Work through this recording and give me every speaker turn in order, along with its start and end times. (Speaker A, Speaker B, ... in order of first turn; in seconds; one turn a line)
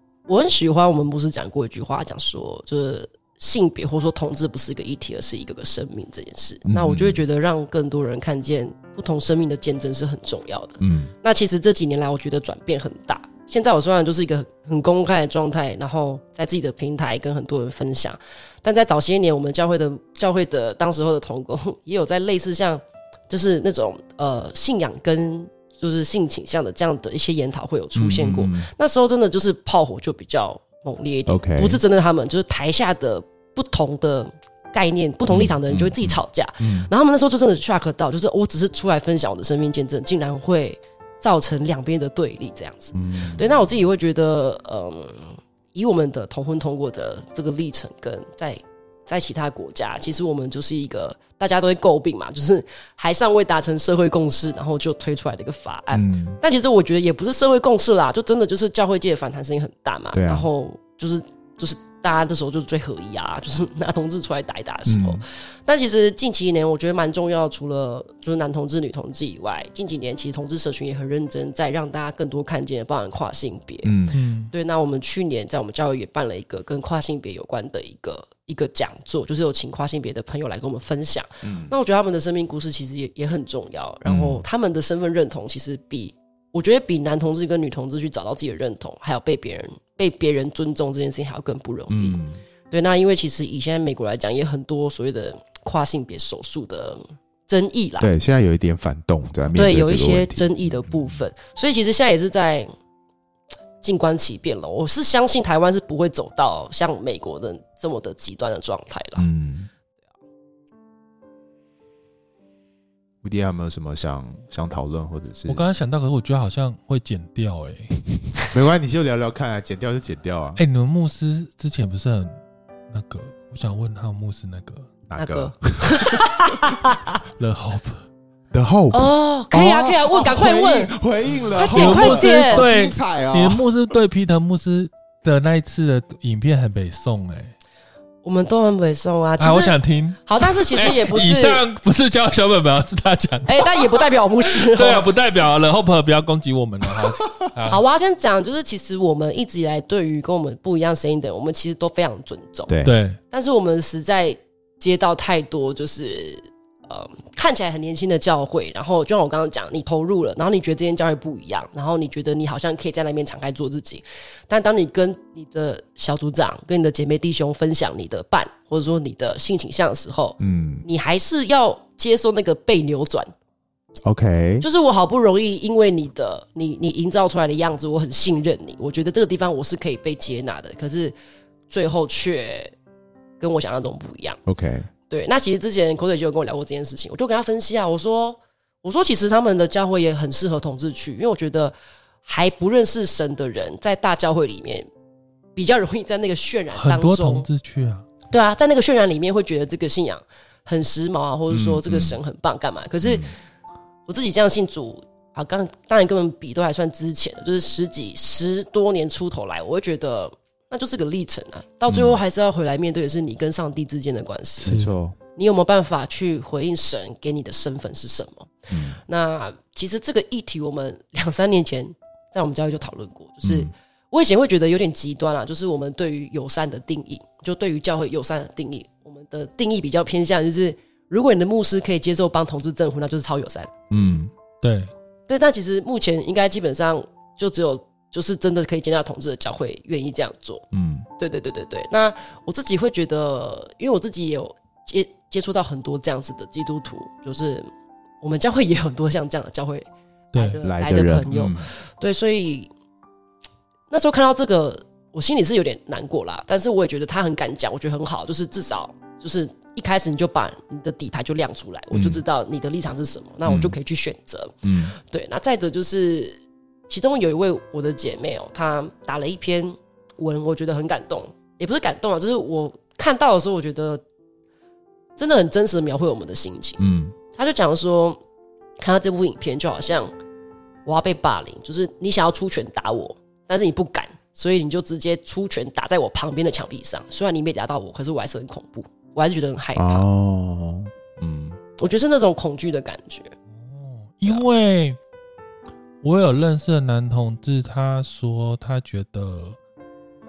Speaker A: 0.3-73.9
Speaker B: 6.7-7.2
Speaker B: 10.8-11.1
Speaker B: 27.9-28.7
Speaker B: 31.3-31.8
Speaker B: 35.3-36.9
Speaker B: 42.9-43.7
Speaker B: 55.9-56.4
Speaker B: 60.1-60.5
Speaker B: 64.9-65.2
Speaker B: 73.8-74.2
Speaker C: 74.1-74.5
Speaker A: 74.5-92.2
Speaker B: 81.4-81.7
Speaker B: 84.0-84.5
Speaker B: 91.9-92.4
Speaker A: 92.7-98.1
Speaker B: 98.0-101.2
Speaker A: 99.5-102.7
Speaker A: 103.8-109.3
Speaker B: 109.2-109.7
Speaker B: 113.2-115.7
Speaker C: 115.5-118.1
Speaker B: 118.5-120.6
Speaker C: 120.6-122.3
Speaker C: 122.9-124.9
Speaker B: 125.1-126.4
Speaker A: 125.2-127.2
Speaker C: 127.4-128.0
Speaker B: 128.5-133.6
Speaker A: 128.9-130.9
Speaker A: 131.6-132.7
Speaker C: 131.6-137.5
Speaker A: 138.2-141.6
Speaker C: 139.4-143.9
Speaker A: 143.5-145.1
Speaker C: 144.6-147.8
Speaker A: 147.7-152.7
Speaker B: 152.7-153.0
Speaker C: 152.8-153.2
Speaker A: 153.3-173.3
Speaker B: 170.4-170.8
Speaker B: 174.0-174.7
Speaker A: 174.6-181.2
Speaker A: 181.7-182.7
Speaker A: 183.4-184.4
Speaker B: 184.5-184.9
Speaker A: 185.1-194.9
Speaker A: 195.6-197.5
Speaker C: 196.7-198.1
Speaker A: 198.3-203.3
Speaker B: 201.5-202.2
Speaker B: 203.0-203.3
Speaker A: 204.1-214.7
Speaker B: 211.9-212.2
Speaker B: 214.6-215.2
Speaker C: 214.6-214.9
Speaker A: 215.4-233.7
Speaker B: 218.7-219.0
Speaker B: 223.4-223.7
Speaker B: 233.9-234.3
Speaker C: 234.6-234.9
Speaker A: 235.3-240.7
Speaker B: 240.7-241.1
Speaker A: 241.2-247.7
Speaker A: 248.2-252.7
Speaker B: 250.6-251.7
Speaker A: 253.9-274.0
Speaker B: 261.9-262.2
Speaker B: 263.4-263.8
Speaker B: 264.6-264.9
Speaker A: 275.2-276.8
Speaker B: 276.8-277.1
Speaker A: 277.3-278.2
Speaker A: 278.8-280.1
Speaker A: 280.9-290.1
Speaker B: 289.8-291.6
Speaker A: 291.8-293.3
Speaker C: 293.6-295.0
Speaker C: 296.0-299.6